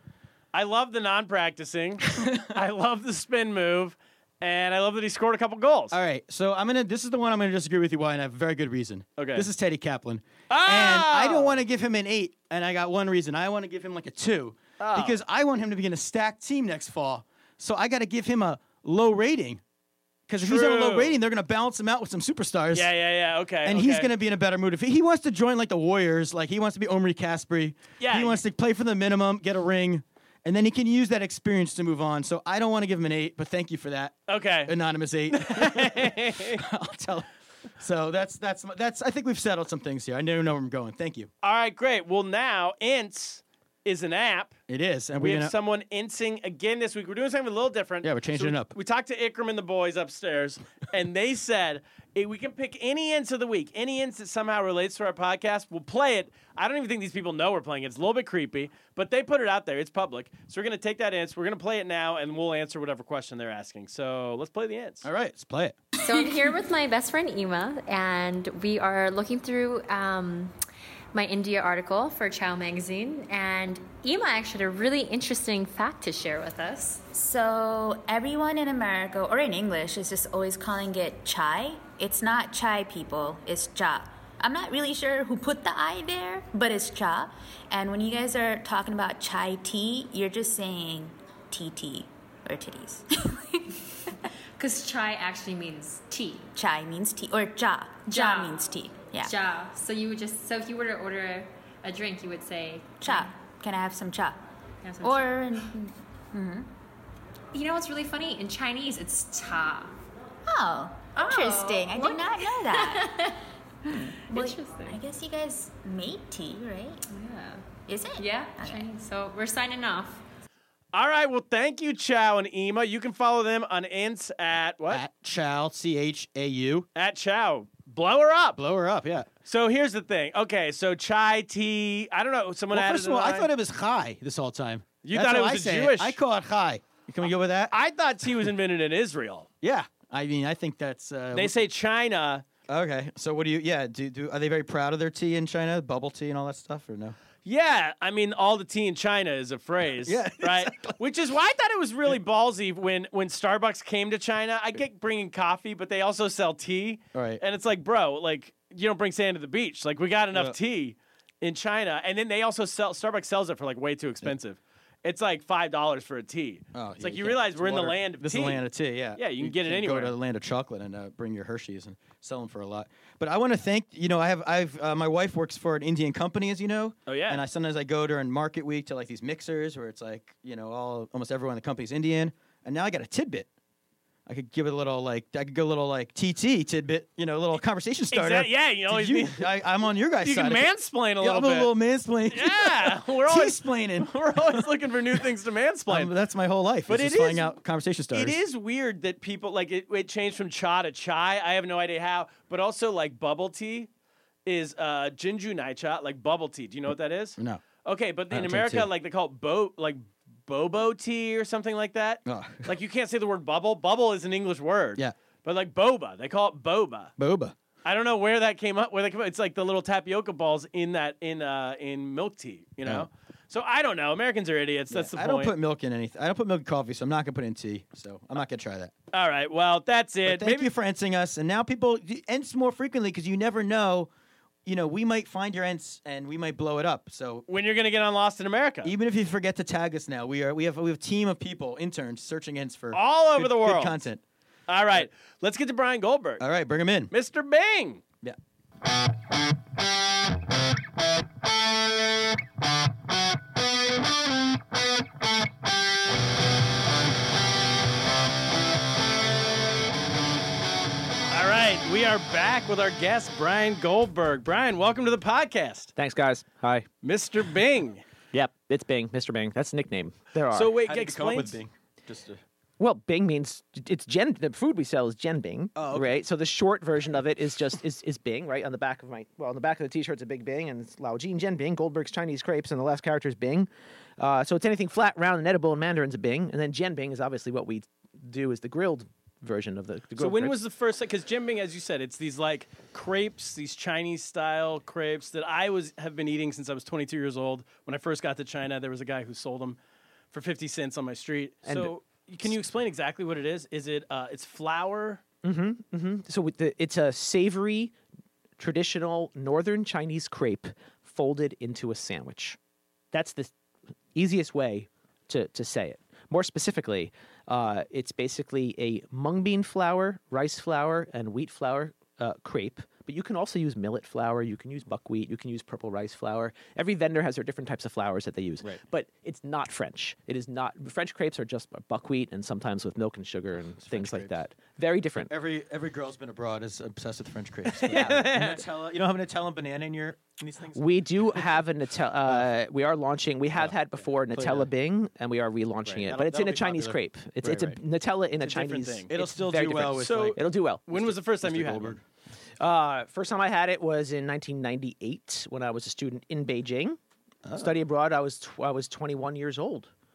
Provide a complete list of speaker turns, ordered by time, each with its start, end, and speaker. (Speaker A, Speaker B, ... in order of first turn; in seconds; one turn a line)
Speaker A: 0.5-6.0
Speaker B: 2.1-2.6
Speaker B: 5.9-19.6
Speaker A: 9.2-9.5
Speaker A: 10.5-11.6
Speaker A: 14.8-15.2
Speaker B: 20.3-22.9
Speaker A: 20.4-21.2
Speaker A: 22.7-24.1
Speaker B: 23.6-37.3
Speaker A: 28.0-28.4
Speaker A: 34.3-34.7
Speaker A: 35.3-36.6
Speaker B: 37.8-41.3
Speaker A: 41.4-44.6
Speaker B: 44.7-45.5
Speaker A: 45.2-65.1
Speaker B: 48.0-48.7
Speaker B: 65.0-65.8
Speaker C: 66.0-70.5
Speaker C: 71.1-77.0
Speaker D: 77.1-93.7
Speaker C: 94.6-96.5
Speaker D: 96.5-99.3
Speaker C: 98.1-98.6
Speaker C: 99.2-103.3
Speaker D: 103.0-104.4
Speaker C: 104.8-105.4
Speaker D: 105.0-106.7
Speaker C: 107.5-110.0
Speaker D: 110.5-113.2
Speaker C: 111.2-113.4
Speaker D: 113.8-117.0
Speaker C: 114.3-115.0
Speaker C: 117.1-117.6
Speaker D: 117.9-118.9
Speaker C: 118.2-120.2
Speaker A: 120.9-125.0
Speaker B: 124.9-126.9
Speaker A: 127.0-128.6
Speaker B: 128.6-129.3
Speaker A: 129.5-133.5
Speaker B: 132.7-137.7
Speaker A: 135.0-136.2
Speaker A: 137.7-139.5
Speaker B: 139.6-141.6
Speaker A: 141.3-142.4
Speaker B: 142.7-147.2
Speaker A: 147.4-168.6
Speaker B: 150.0-151.0
Speaker B: 157.1-157.4
Speaker B: 166.7-183.5
Speaker A: 169.2-170.1
Speaker A: 177.1-177.4
Speaker B: 184.3-194.7
Speaker A: 188.1-191.7
Speaker A: 192.3-196.1
Speaker B: 195.9-198.4
Speaker A: 196.9-197.6
Speaker A: 198.1-203.9
Speaker A: 204.5-217.1
Speaker B: 207.4-207.6
Speaker B: 208.3-208.9
Speaker B: 212.3-212.7
Speaker B: 217.2-217.6
Speaker A: 217.8-225.5
Speaker B: 224.9-228.9
Speaker A: 229.1-230.7
Speaker B: 230.2-234.1
Speaker B: 234.7-237.5
Speaker A: 237.5-238.9
Speaker B: 238.8-244.2
Speaker A: 242.9-244.0
Speaker A: 244.7-246.4
Speaker B: 246.4-247.1
Speaker A: 247.1-248.0
Speaker A: 261.3-265.9
Speaker E: 266.0-266.9
Speaker A: 267.0-268.0
Speaker E: 268.3-270.7
Speaker A: 270.5-271.6
Speaker B: 270.8-272.4
Speaker E: 272.8-290.6
Speaker B: 275.8-276.2
Speaker A: 290.2-299.8
Speaker A: 300.3-305.2
Speaker E: 301.6-301.9
Speaker E: 305.4-307.9
Speaker E: 308.6-312.6
Speaker E: 313.1-313.5
Speaker E: 314.1-335.3
Speaker B: 333.8-334.4
Speaker B: 335.3-341.4
Speaker A: 337.7-338.6
Speaker E: 340.8-351.1
Speaker B: 343.6-344.7
Speaker B: 345.9-347.8
Speaker A: 348.4-349.1
Speaker B: 349.1-350.4
Speaker A: 350.0-352.0
Speaker B: 350.9-352.0
Speaker E: 352.6-357.0
Speaker B: 357.4-357.8
Speaker E: 357.6-359.9